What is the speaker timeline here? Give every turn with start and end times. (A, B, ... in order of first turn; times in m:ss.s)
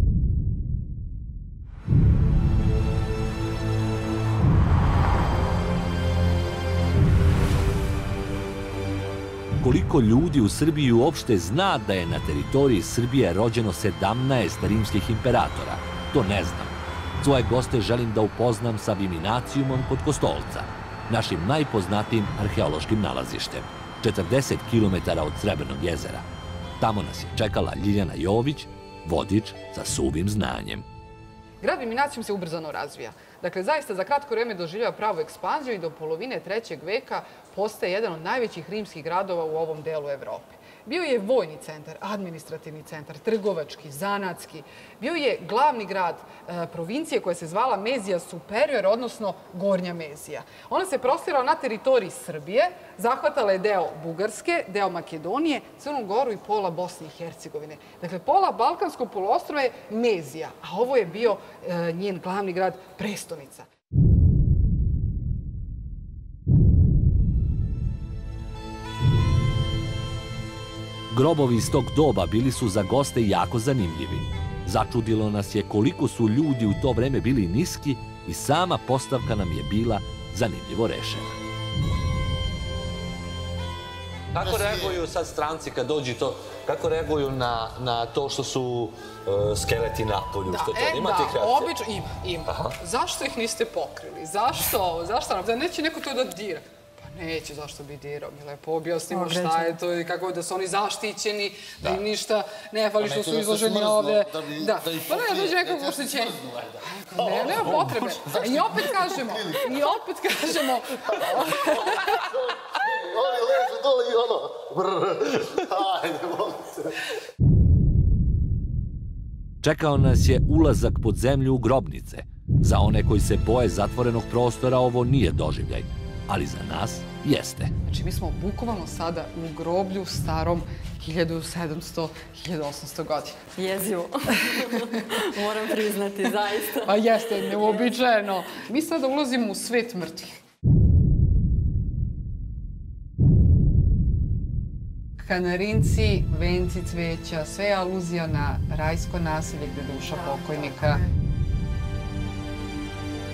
0:09.6-0:26.2 A
0:26.8-0:30.9 A
0:31.6-1:03.7 B
1:11.1-1:21.4 A
1:24.3-1:31.7 C
1:24.4-1:25.0 D
1:30.5-1:52.1 B
1:32.4-1:32.7 C
1:39.1-1:39.8 E
1:43.0-1:49.9 D
1:51.0-1:57.0 D
1:59.6-2:07.7 A
2:07.8-2:13.4 B
2:13.6-2:17.7 E
2:14.5-2:15.2 B
2:16.8-2:20.4 B
2:25.2-2:31.0 B
2:30.1-2:31.0 E